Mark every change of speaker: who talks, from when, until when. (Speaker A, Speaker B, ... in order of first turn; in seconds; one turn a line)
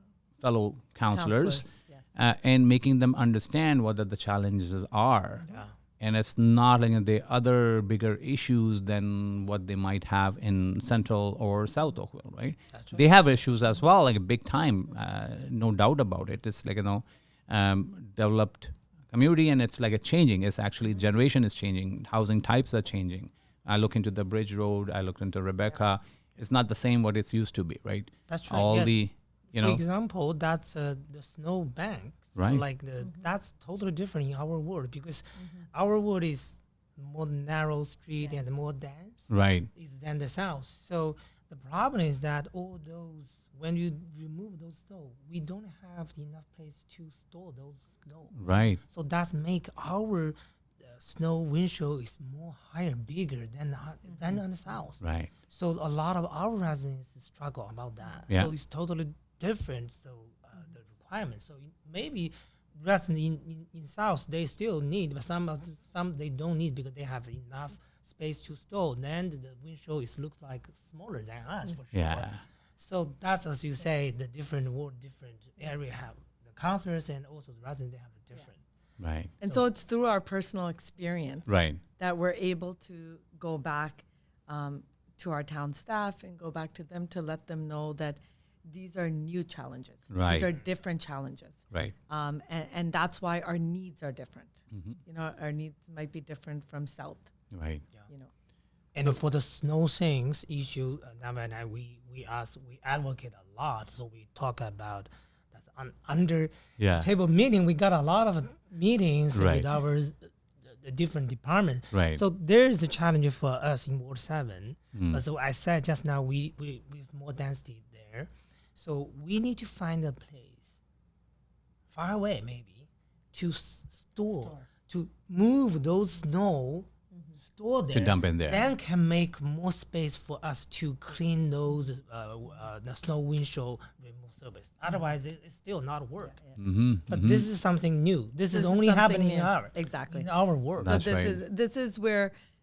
Speaker A: 0.4-5.5
Speaker B: 1.1-2.1
Speaker A: 6.0-29.8
Speaker C: 12.7-13.0
Speaker C: 28.3-28.9
Speaker C: 29.5-78.6
Speaker A: 32.4-32.6
Speaker B: 33.0-33.3
Speaker B: 35.4-35.6
Speaker B: 38.2-38.5
Speaker A: 39.3-39.7
Speaker A: 48.3-48.8
Speaker B: 54.0-54.4
Speaker A: 55.0-55.3
Speaker A: 71.9-72.4
Speaker A: 79.0-79.3
Speaker B: 79.4-97.3
Speaker A: 81.5-81.8
Speaker A: 90.1-90.5
Speaker A: 94.7-95.0
Speaker A: 97.5-97.8
Speaker B: 98.0-98.3
Speaker C: 98.9-120.8
Speaker A: 106.8-107.1
Speaker A: 109.3-109.7
Speaker A: 111.9-112.2
Speaker A: 114.9-115.2
Speaker C: 121.9-136.3
Speaker B: 124.3-124.6
Speaker B: 127.1-127.4
Speaker A: 127.9-128.6
Speaker B: 136.2-136.6
Speaker A: 136.6-137.5
Speaker C: 137.1-141.0
Speaker B: 138.5-140.3
Speaker A: 140.8-141.4
Speaker B: 140.8-142.3